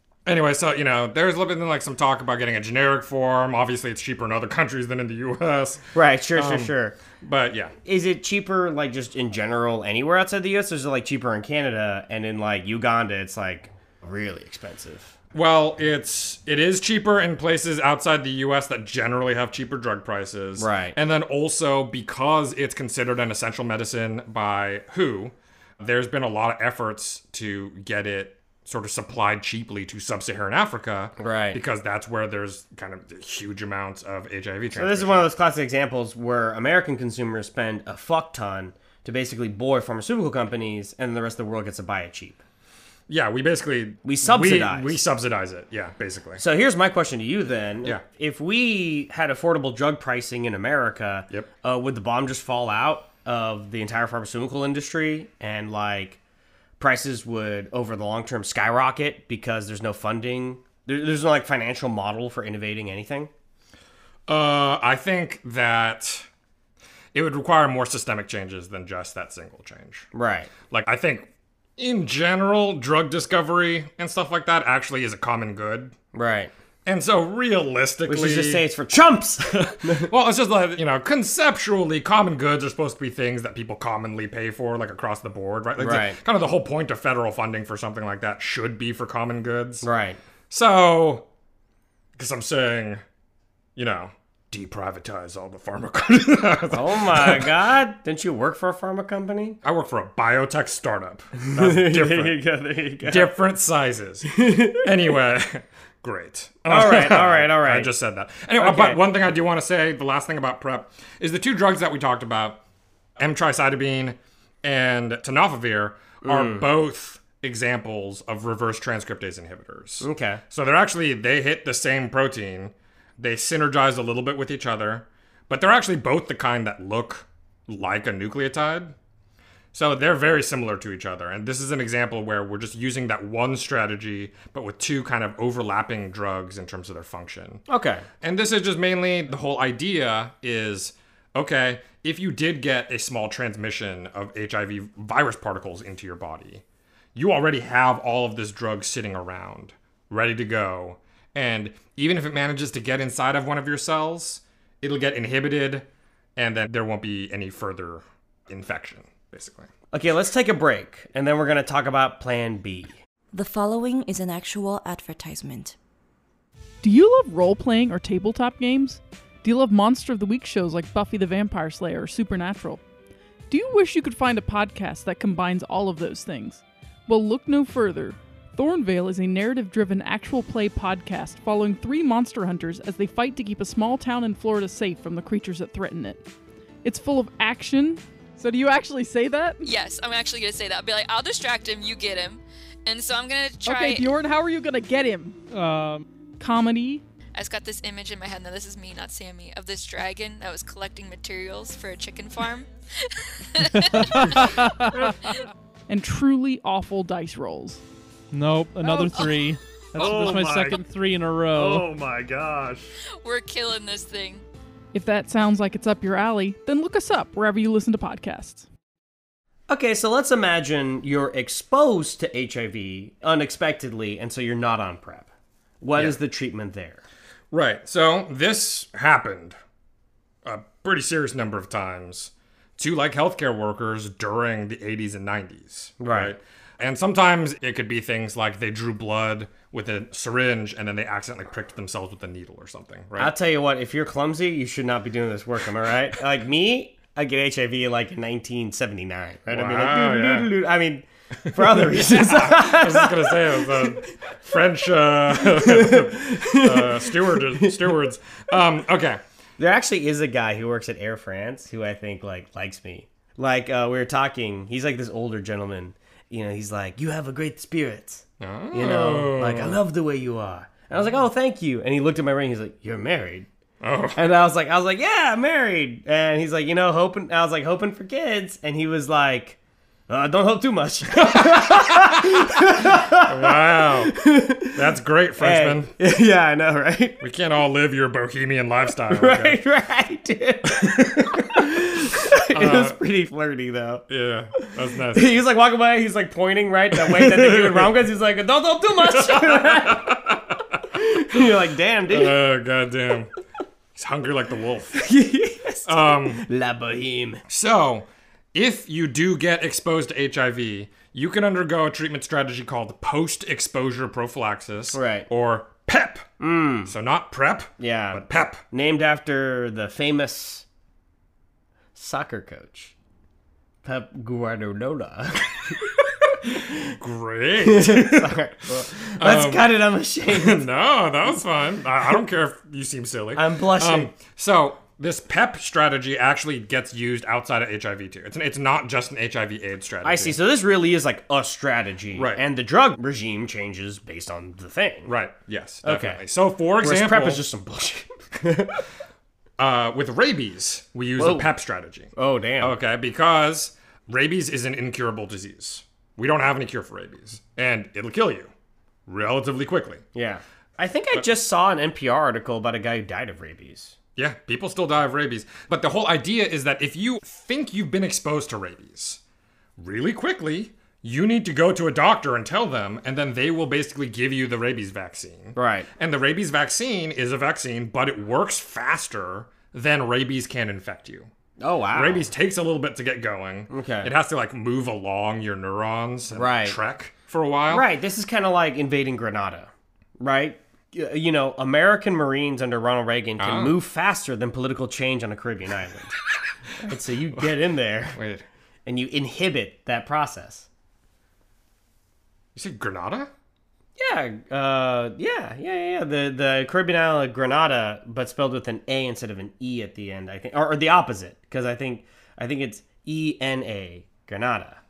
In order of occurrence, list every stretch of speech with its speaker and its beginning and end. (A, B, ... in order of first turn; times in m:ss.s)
0:00.2-0:07.7 A
0:05.9-0:07.0 B
0:07.8-0:15.1 B
0:15.3-0:35.3 A
0:20.6-0:21.0 B
0:31.2-0:31.6 B
0:34.7-0:42.4 B
0:43.1-0:46.4 A
0:44.0-0:45.0 B
0:46.4-0:56.2 B
0:56.8-1:03.3 B
1:04.3-1:06.3 A
1:07.1-1:10.1 A
1:10.1-1:10.5 B
1:10.7-1:15.9 A
1:16.1-1:16.5 B
1:16.8-1:18.6 A
1:18.0-1:20.1 B
1:19.5-1:29.8 A
1:25.8-1:26.2 B
1:29.8-1:30.2 B
1:30.5-1:31.2 A
1:32.2-1:33.0 A
1:33.8-1:37.5 A
1:36.7-1:39.6 B
1:39.6-1:42.4 A
1:41.4-1:43.4 B
1:43.0-1:52.6 A
1:44.3-1:44.9 B
1:46.6-1:47.9 B
1:48.6-1:49.0 B
1:53.2-2:08.9 A
1:56.2-1:56.7 B
2:00.0-2:00.4 B
2:09.7-2:17.6 A
2:17.7-2:18.0 B
2:18.2-2:26.6 A
2:27.1-2:39.7 A
2:39.9-2:43.0 B
2:43.3-2:45.8 C
2:46.8-2:52.8 D
2:53.5-3:06.2 D
3:06.8-3:09.6 D
3:09.6-3:14.1 E
3:13.6-3:15.4 D
3:15.5-3:16.0 F
3:16.4-3:17.0 D
3:17.3-3:24.6 E
3:23.7-3:25.1 F
3:25.9-3:27.8 D
3:28.3-3:31.9 F
3:28.9-3:29.4 E
3:30.0-3:30.8 A
3:30.0-3:30.4 B
3:31.6-3:32.8 B
3:31.6-3:32.8 A
3:33.2-3:34.4 E
3:34.9-3:38.7 D
3:39.7-3:45.3 B
3:45.8-3:47.0 B
3:47.5-3:49.6 A
3:50.4-4:03.3 A
3:56.0-3:56.3 B
4:03.2-4:14.0 B
4:09.5-4:10.5 A
4:11.5-4:19.2 A
4:15.4-4:17.9 B
4:19.6-4:33.5 B
4:28.4-4:29.8 A
4:33.8-4:34.2 A
4:34.1-4:39.6 B
4:40.1-4:44.8 B
4:41.2-4:45.9 A
4:45.4-4:47.2 B
4:47.2-4:49.6 A
4:49.1-4:54.0 B
4:50.7-4:53.0 A
4:54.1-4:55.4 A
4:54.6-5:00.2 B
4:56.9-4:57.9 A
4:59.0-5:00.8 A
5:00.9-5:02.4 B
5:02.1-5:03.3 A
5:03.9-5:05.0 A
5:04.9-5:07.4 B
5:05.8-5:06.4 A
5:07.5-5:16.3 A
5:14.9-5:15.3 B
5:16.4-5:16.9 B
5:16.8-5:18.6 A
5:17.8-5:20.6 B
5:22.0-5:22.9 B
5:23.8-5:25.8 B
5:26.5-5:29.7 A
5:27.6-5:30.6 B
5:30.3-5:40.4 A
5:33.3-5:34.1 B
5:40.0-5:45.1 B
5:42.1-5:42.4 A
5:45.1-5:47.4 A
5:45.8-5:46.2 B
5:46.8-5:48.8 B
5:49.6-5:58.5 A
5:51.2-5:51.5 B
5:52.1-5:52.8 B
5:59.1-6:00.0 A
6:00.1-6:04.0 B
6:04.2-6:09.2 A
6:09.8-6:21.3 A
6:15.6-6:15.9 B
6:21.6-6:22.3 B
6:21.9-6:27.8 A
6:23.7-6:24.1 B
6:26.3-6:26.8 B
6:27.7-6:36.2 B
6:33.4-6:33.8 A
6:36.8-6:38.2 B
6:36.9-6:37.5 A
6:38.1-6:38.4 A
6:38.8-6:40.7 B
6:42.5-6:43.3 A
6:44.0-6:54.8 B